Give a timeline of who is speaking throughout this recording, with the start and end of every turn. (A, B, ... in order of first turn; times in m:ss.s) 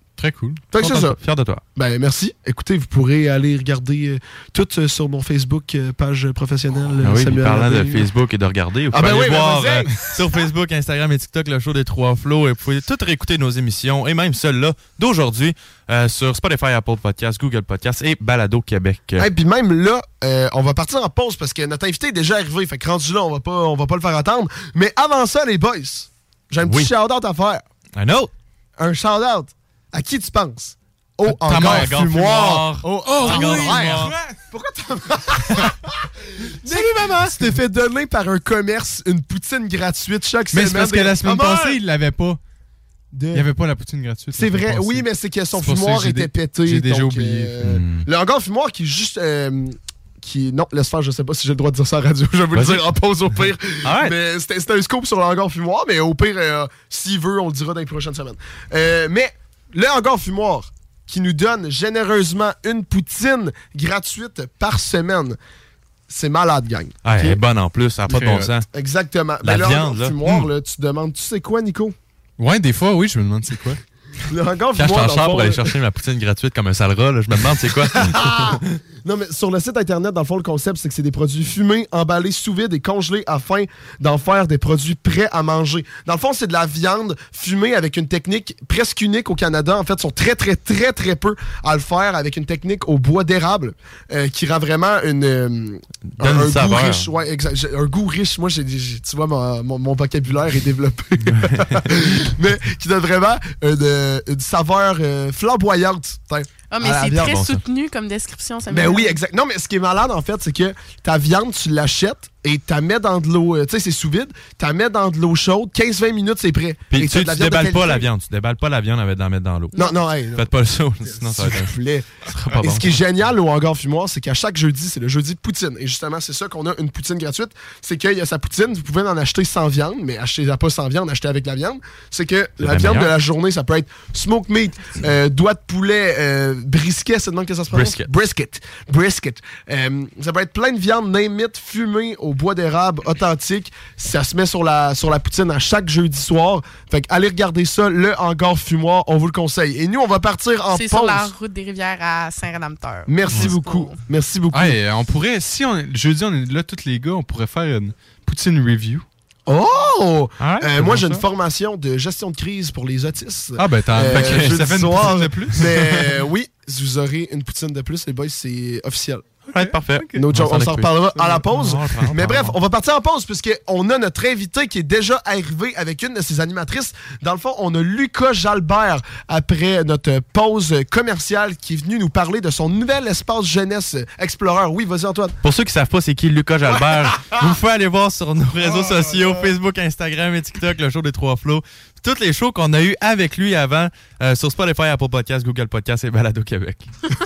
0:00.2-0:01.6 A
0:00.7-0:01.2 B
0:01.8-0:08.0 B
0:07.0-0:19.3 A
0:08.9-0:10.0 B
0:19.2-0:27.6 B
0:26.6-0:26.9 A
0:28.0-0:28.3 A
0:28.8-0:35.8 B
0:31.3-0:34.1 A
0:31.4-0:32.0 C
0:33.0-0:34.3 C
0:36.6-0:41.8 B
0:36.9-0:37.3 C
0:40.5-0:42.4 C
0:43.1-0:43.5 B
0:43.3-0:47.5 C
0:44.3-1:05.4 B
0:47.6-0:48.0 A
0:52.5-0:52.8 A
0:53.8-0:54.1 A
1:06.1-1:07.4 B
1:07.0-1:08.6 A
1:08.1-1:08.5 C
1:08.7-1:11.9 B
1:09.4-1:10.5 A
1:12.4-1:13.8 C
1:14.3-1:15.6 B
1:14.8-1:18.6 A
1:17.9-1:47.4 B
1:36.2-1:37.1 A
1:46.7-1:49.2 D
1:47.1-1:47.6 A
1:48.7-1:58.0 B
1:56.9-2:01.7 A
1:59.8-2:00.5 B
2:01.0-2:31.3 B
2:02.2-2:03.0 A
2:12.6-2:13.1 A
2:17.7-2:18.1 A
2:30.7-2:34.0 D
2:33.1-2:34.8 B
2:34.5-2:39.0 C
2:39.5-2:49.2 B
2:40.4-2:41.2 A
2:43.6-2:46.1 C
2:49.5-2:52.6 A
2:49.6-2:50.2 C
2:50.1-3:05.3 B
3:05.4-3:16.9 A